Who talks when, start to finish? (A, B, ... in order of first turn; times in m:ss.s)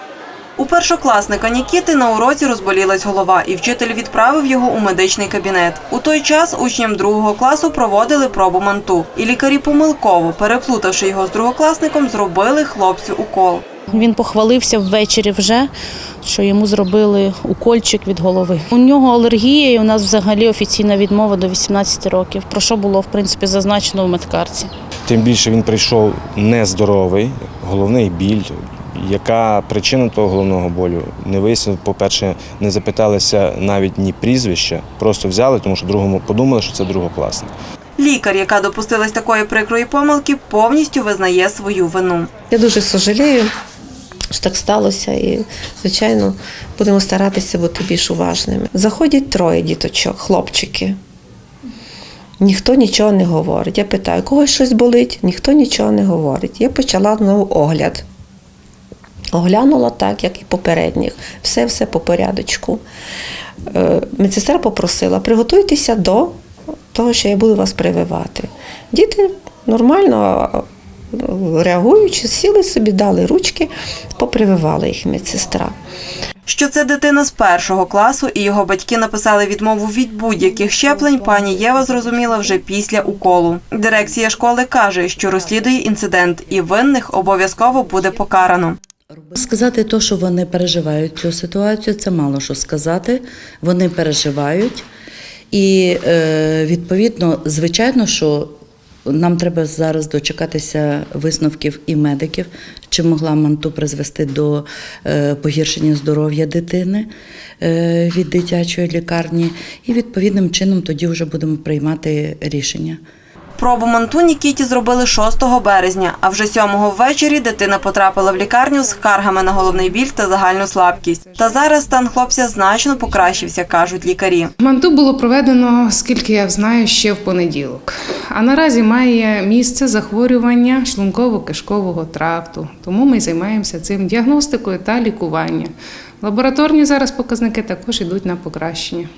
0:00.6-0:13.6 A
0:13.9-0:15.7 B
0:16.2-0:24.7 B
0:25.1-0:37.5 C
0:38.0-0:42.3 A
0:42.5-0:43.5 D
0:44.3-0:51.0 D
0:52.4-0:58.0 D
0:59.3-1:02.8 D
1:03.7-1:06.4 D
1:06.9-1:10.6 D
1:11.1-1:15.7 D
1:16.5-1:28.8 A
1:29.1-1:34.8 E
1:35.5-1:38.5 E
1:39.1-1:47.1 E
1:47.6-1:53.0 E
1:53.6-2:04.5 A
1:58.5-2:19.1 F